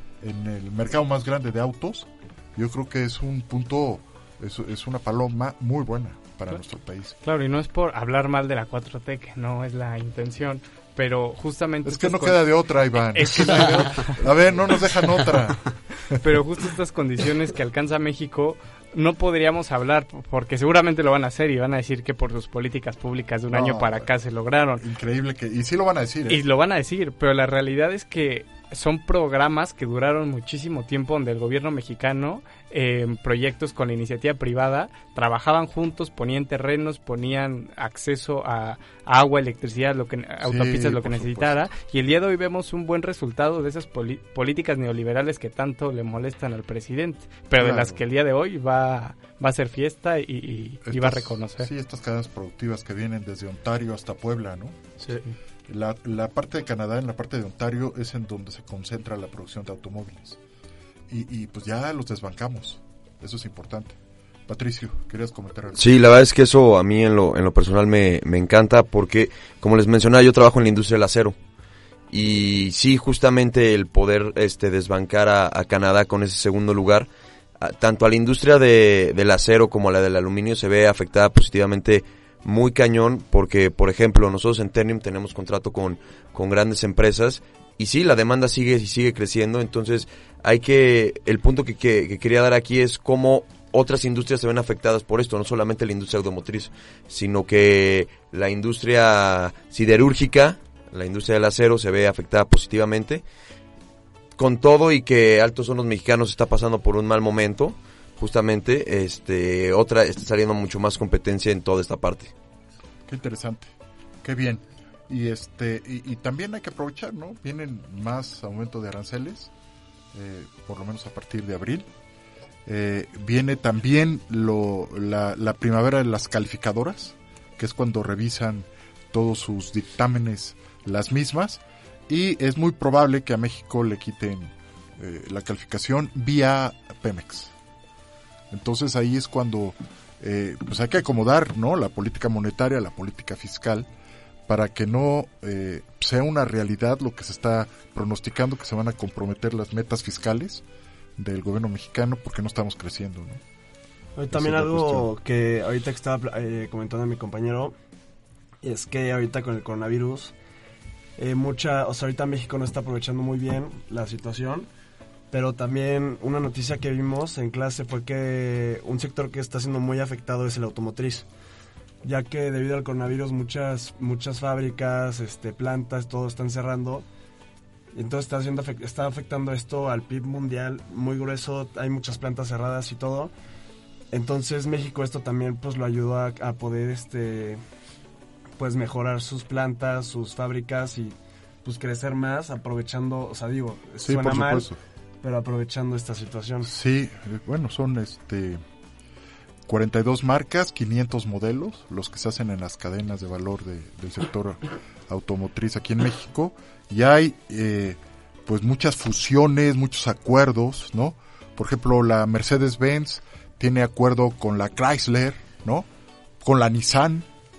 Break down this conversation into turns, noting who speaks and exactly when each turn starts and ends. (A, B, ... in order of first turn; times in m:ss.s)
0:00.2-0:07.2 A
0:07.2-0:12.5 B
0:11.8-0:16.2 A
0:13.1-0:14.1 B
0:16.2-0:24.8 B
0:23.5-0:24.1 A
0:24.8-0:26.4 A
0:26.3-0:51.7 B
0:40.4-0:41.7 A
0:47.6-0:48.0 A
0:50.8-0:54.8 A
0:55.7-1:00.4 A
1:01.1-1:04.0 A
1:04.5-1:05.9 A
1:05.8-1:11.3 C
1:12.1-1:17.1 C
1:17.6-1:43.2 C
1:44.4-1:52.3 C
1:53.1-1:59.5 A
2:00.1-2:01.9 A
2:02.6-2:17.5 A
2:18.5-2:23.9 A
2:24.5-2:30.6 A
2:31.2-2:33.4 A
2:34.2-2:37.7 D
2:34.3-2:35.1 A
2:38.6-2:40.3 D
2:41.2-2:44.7 D
2:45.3-2:51.3 D
2:52.0-2:57.0 D
2:57.9-3:03.3 D
3:04.1-3:07.6 D
3:08.6-3:14.7 D
3:14.0-3:14.8 A
3:15.2-3:16.7 D
3:16.6-3:18.6 A
3:19.7-3:35.9 A
3:36.4-3:37.3 A